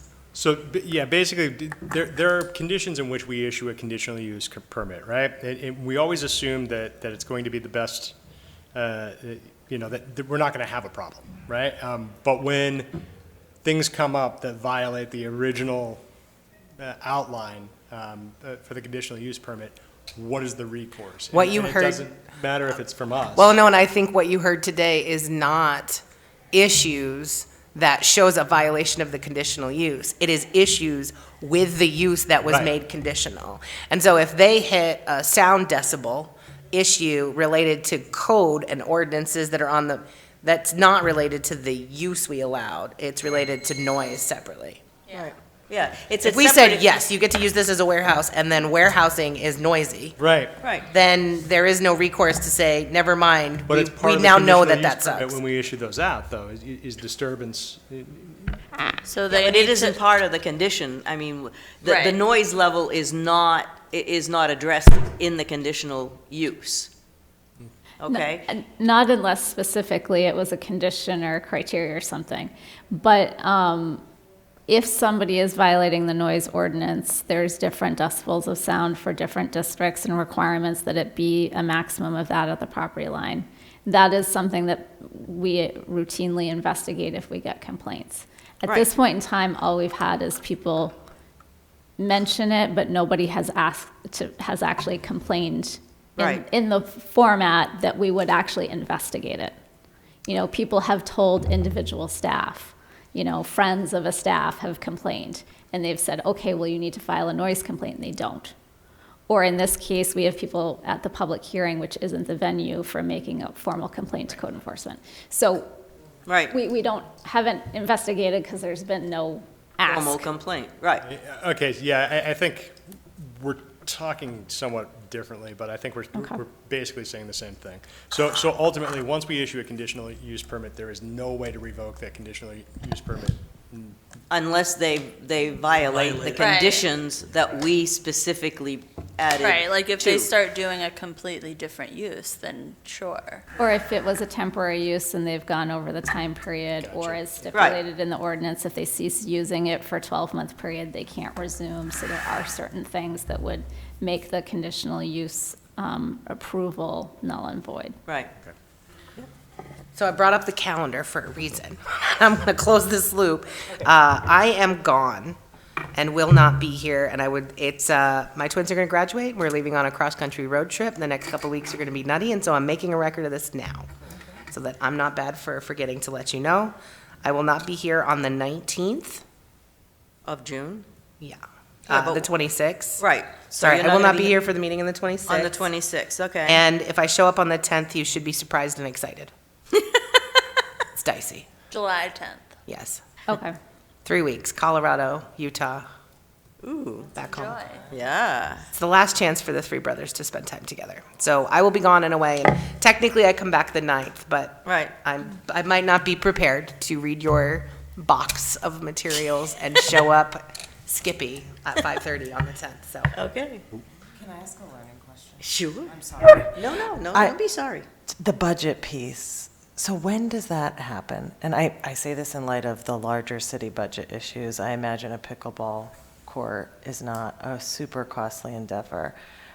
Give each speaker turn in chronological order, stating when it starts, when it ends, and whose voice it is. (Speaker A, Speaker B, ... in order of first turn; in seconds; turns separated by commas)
Speaker A: 0.3-8.1, Speaker A: 8.7-12.9, Speaker A: 13.6-16.0, Speaker A: 16.8-23.5, Speaker B: 21.3-22.0, Speaker B: 23.3-44.8, Speaker A: 32.5-32.7, Speaker C: 45.1-46.8, Speaker B: 46.2-50.2, Speaker A: 50.2-50.6, Speaker C: 50.6-50.9, Speaker B: 50.8-55.4, Speaker A: 53.6-58.6, Speaker D: 59.0-60.0, Speaker C: 59.3-66.9, Speaker D: 61.8-62.2, Speaker C: 68.0-68.5, Speaker E: 68.1-74.0, Speaker E: 74.7-90.9, Speaker E: 92.0-99.5, Speaker C: 96.2-96.4, Speaker E: 100.2-108.5, Speaker E: 109.3-115.7, Speaker C: 116.3-116.5, Speaker E: 116.5-120.3, Speaker C: 119.9-121.0, Speaker A: 121.0-134.0, Speaker E: 126.2-126.4, Speaker C: 134.3-140.3, Speaker A: 135.9-136.6, Speaker D: 136.3-136.9, Speaker D: 139.4-143.4, Speaker E: 143.6-158.0, Speaker A: 146.8-147.8, Speaker C: 147.5-147.8, Speaker C: 158.1-158.3, Speaker B: 159.9-165.4, Speaker B: 165.9-173.9, Speaker B: 174.5-179.2, Speaker C: 180.2-180.8, Speaker B: 181.2-183.1, Speaker C: 181.9-182.3, Speaker C: 183.0-184.4, Speaker B: 183.6-185.7, Speaker C: 185.3-186.6, Speaker B: 186.4-189.3, Speaker B: 190.9-191.5, Speaker D: 191.7-192.5, Speaker B: 192.7-193.0, Speaker E: 193.3-193.6, Speaker B: 194.0-195.8, Speaker C: 196.6-197.2, Speaker B: 197.2-197.6, Speaker D: 197.2-197.9, Speaker C: 197.9-198.7, Speaker B: 198.7-213.1, Speaker C: 204.6-204.9, Speaker C: 213.1-213.6, Speaker F: 214.3-215.3, Speaker C: 215.4-217.8, Speaker F: 218.1-229.2